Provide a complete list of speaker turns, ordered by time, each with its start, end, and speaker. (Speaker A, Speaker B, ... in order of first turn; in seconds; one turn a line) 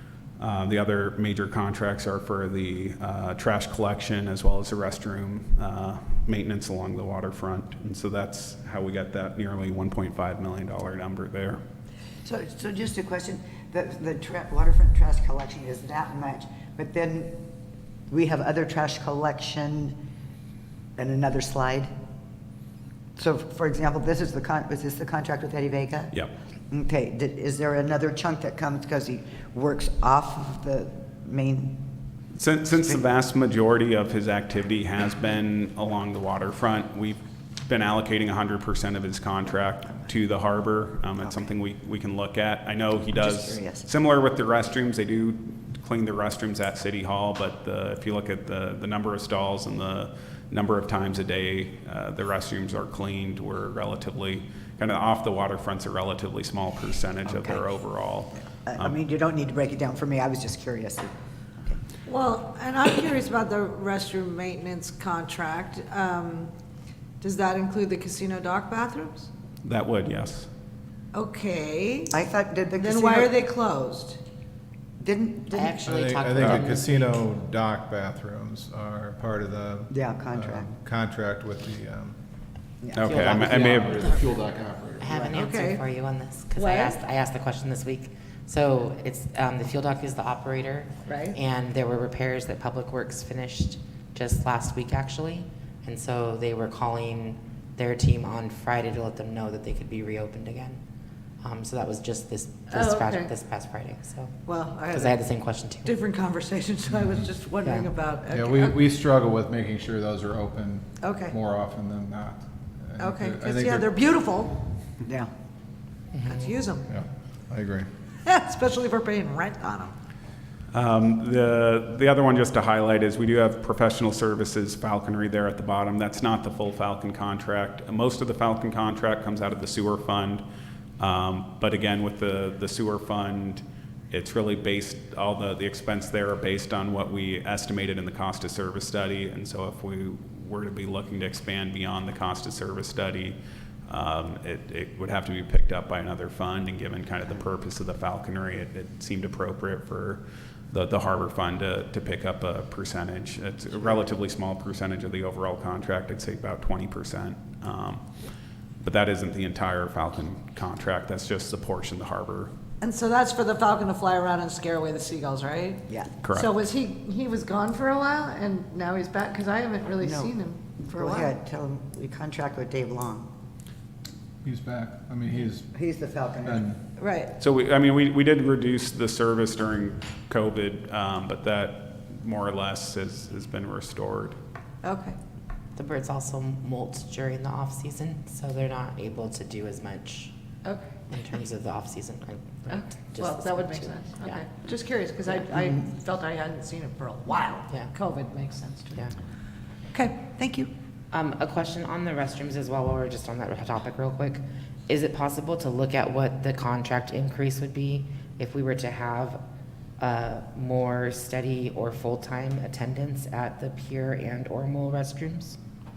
Speaker A: 0.4-11.6
Speaker B: 12.2-17.4
Speaker B: 18.1-20.0
Speaker B: 21.0-21.9
Speaker B: 23.2-26.1
Speaker B: 26.7-31.8
Speaker A: 32.3-59.0
Speaker B: 32.8-33.0
Speaker B: 41.2-41.5
Speaker B: 43.1-43.9
Speaker B: 57.2-57.6
Speaker B: 58.6-61.8
Speaker C: 62.1-66.5
Speaker C: 67.2-69.3
Speaker A: 69.6-70.5
Speaker C: 71.1-72.2
Speaker B: 72.1-73.4
Speaker C: 72.8-74.2
Speaker B: 75.0-75.8
Speaker D: 75.5-77.3
Speaker E: 75.8-82.2
Speaker B: 79.9-80.7
Speaker B: 82.8-83.3
Speaker A: 82.9-84.1
Speaker D: 83.0-84.0
Speaker E: 83.2-85.2
Speaker D: 85.0-100.8
Speaker C: 85.3-85.8
Speaker C: 86.5-87.0
Speaker C: 91.1-91.4
Speaker D: 101.4-104.4
Speaker C: 102.7-103.3
Speaker C: 104.5-105.3
Speaker D: 104.9-105.9
Speaker C: 105.8-108.8
Speaker D: 107.6-107.9
Speaker E: 108.3-113.9
Speaker C: 111.0-111.3
Speaker C: 113.0-114.6
Speaker B: 115.0-115.3
Speaker D: 116.1-116.5
Speaker C: 116.2-116.9
Speaker E: 116.8-117.9
Speaker C: 118.2-119.9
Speaker A: 120.7-130.4
Speaker A: 131.0-143.4
Speaker A: 143.9-158.0
Speaker A: 158.8-162.5
Speaker C: 162.8-171.3
Speaker A: 166.2-166.5
Speaker B: 170.0-170.3
Speaker B: 170.8-173.3
Speaker E: 174.4-175.7
Speaker B: 175.7-176.7
Speaker E: 176.4-176.8
Speaker C: 177.0-177.3
Speaker A: 177.4-184.4
Speaker C: 184.8-185.2
Speaker D: 185.8-190.3
Speaker C: 190.6-191.0
Speaker D: 191.1-194.4
Speaker C: 192.7-199.1
Speaker B: 195.5-195.8
Speaker B: 200.0-200.7
Speaker D: 201.1-209.4
Speaker D: 210.0-215.6